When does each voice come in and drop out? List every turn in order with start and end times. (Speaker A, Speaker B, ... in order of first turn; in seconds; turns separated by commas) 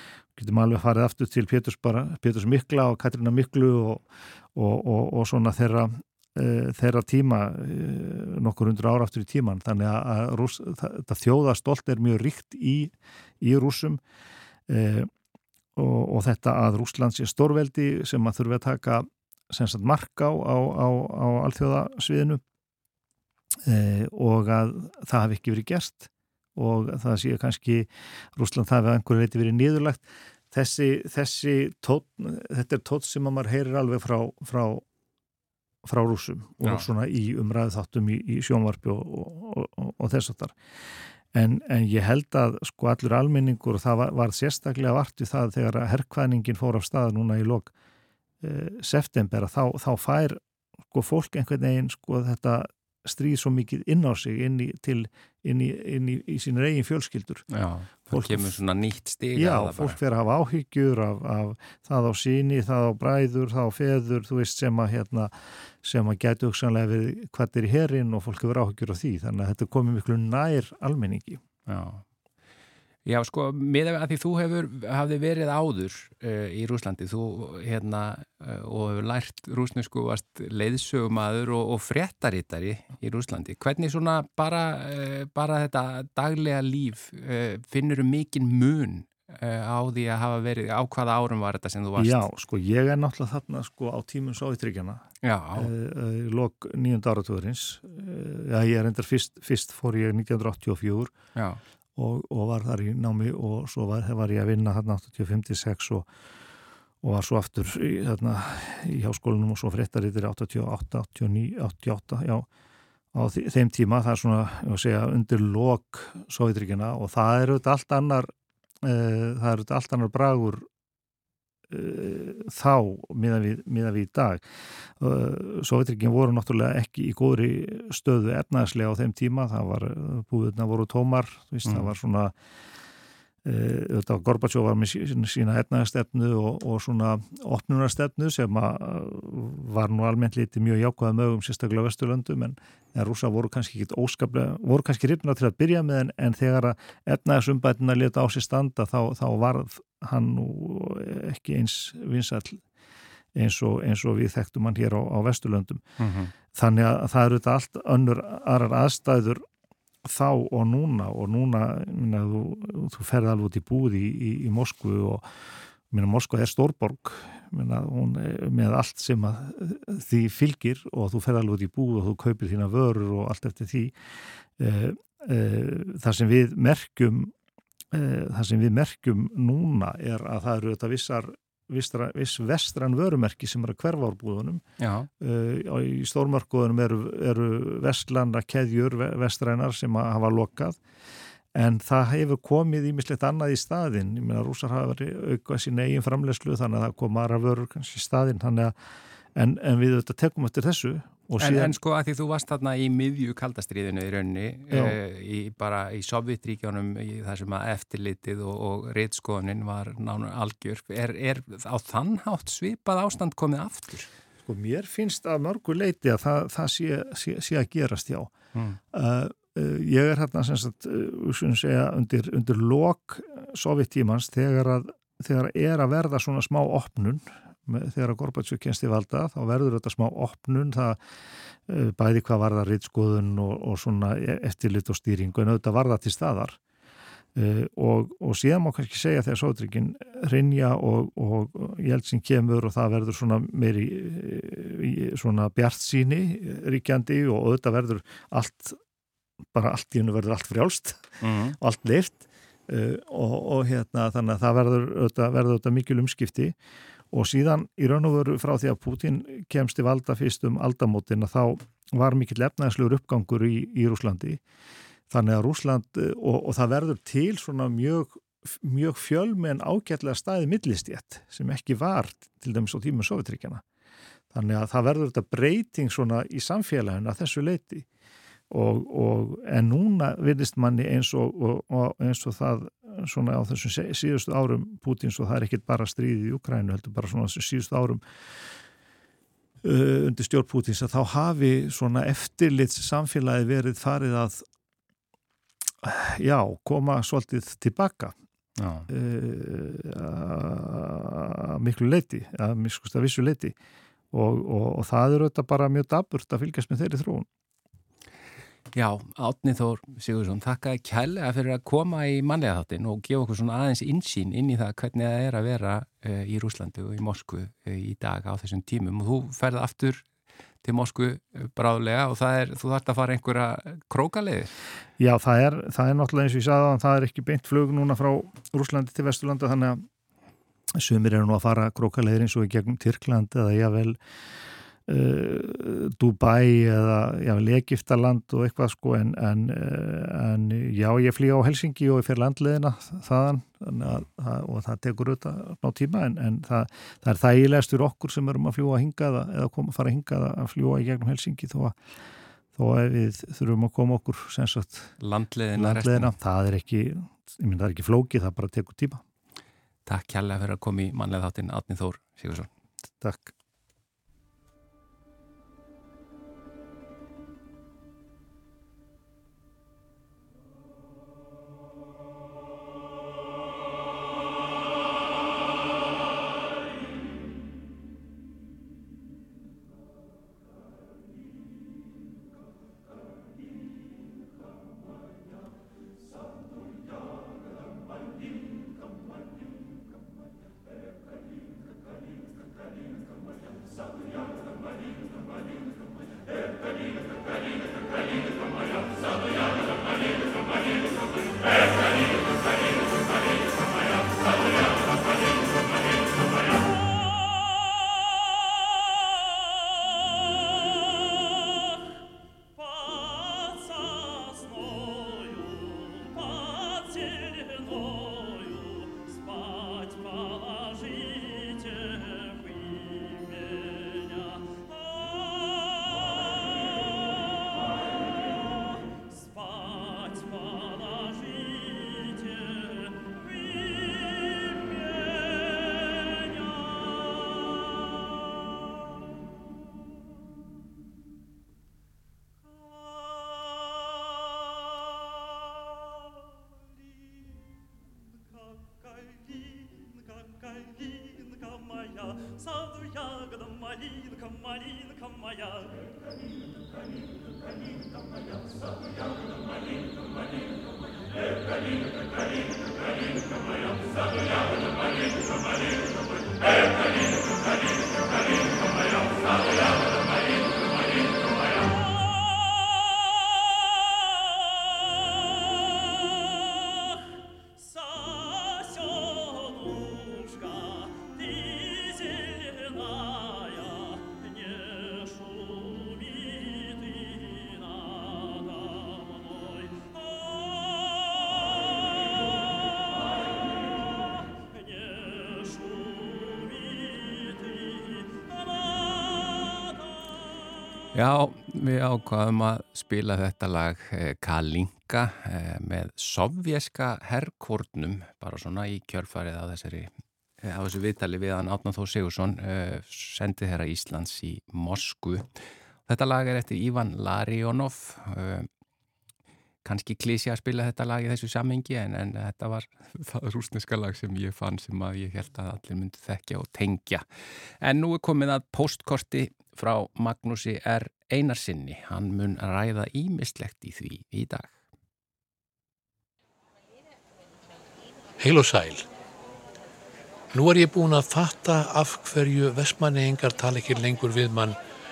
Speaker A: 0.3-14.0, Speaker A: 14.7-15.1, Speaker A: 15.8-22.4, Speaker A: 23.6-34.8, Speaker A: 35.8-40.5, Speaker B: 36.6-36.9, Speaker A: 41.3-47.7, Speaker A: 48.4-57.4, Speaker B: 57.5-60.0, Speaker A: 58.1-58.5, Speaker A: 59.4-71.4, Speaker B: 71.7-72.0, Speaker B: 73.0-92.3, Speaker A: 92.0-95.0, Speaker B: 95.2-95.7, Speaker A: 95.5-101.1, Speaker A: 102.0-106.1, Speaker A: 107.0-112.5, Speaker A: 113.1-120.7, Speaker A: 121.7-124.4, Speaker A: 125.0-132.3, Speaker B: 131.7-131.9, Speaker A: 133.4-152.6, Speaker A: 153.3-155.8, Speaker B: 156.0-156.3, Speaker A: 156.5-159.4, Speaker A: 160.0-165.3, Speaker A: 165.9-173.9, Speaker A: 174.6-177.3, Speaker A: 177.9-184.6, Speaker B: 184.8-185.1, Speaker A: 185.2-190.8, Speaker A: 191.5-198.7, Speaker A: 199.3-201.7, Speaker B: 201.4-214.1, Speaker A: 204.7-205.0, Speaker A: 214.4-218.3, Speaker A: 218.9-231.0, Speaker A: 231.7-236.6, Speaker A: 237.3-248.8, Speaker A: 249.5-256.5, Speaker B: 251.2-251.6, Speaker A: 257.1-264.4, Speaker A: 265.1-273.6, Speaker A: 274.3-277.9, Speaker A: 278.5-288.0, Speaker A: 289.6-294.4, Speaker A: 295.8-298.1, Speaker B: 298.6-298.9, Speaker A: 298.9-303.5, Speaker A: 304.1-307.3, Speaker B: 308.7-320.1, Speaker B: 320.6-324.5, Speaker A: 325.0-329.8, Speaker A: 330.7-334.0, Speaker A: 334.9-351.8, Speaker A: 352.5-354.9, Speaker B: 355.0-356.1, Speaker A: 355.6-359.0, Speaker B: 359.9-362.5, Speaker A: 363.0-363.3, Speaker B: 500.9-509.9, Speaker B: 510.4-515.3, Speaker B: 515.9-518.5, Speaker B: 519.6-527.0, Speaker B: 527.6-534.6, Speaker C: 538.2-538.8, Speaker C: 540.3-544.6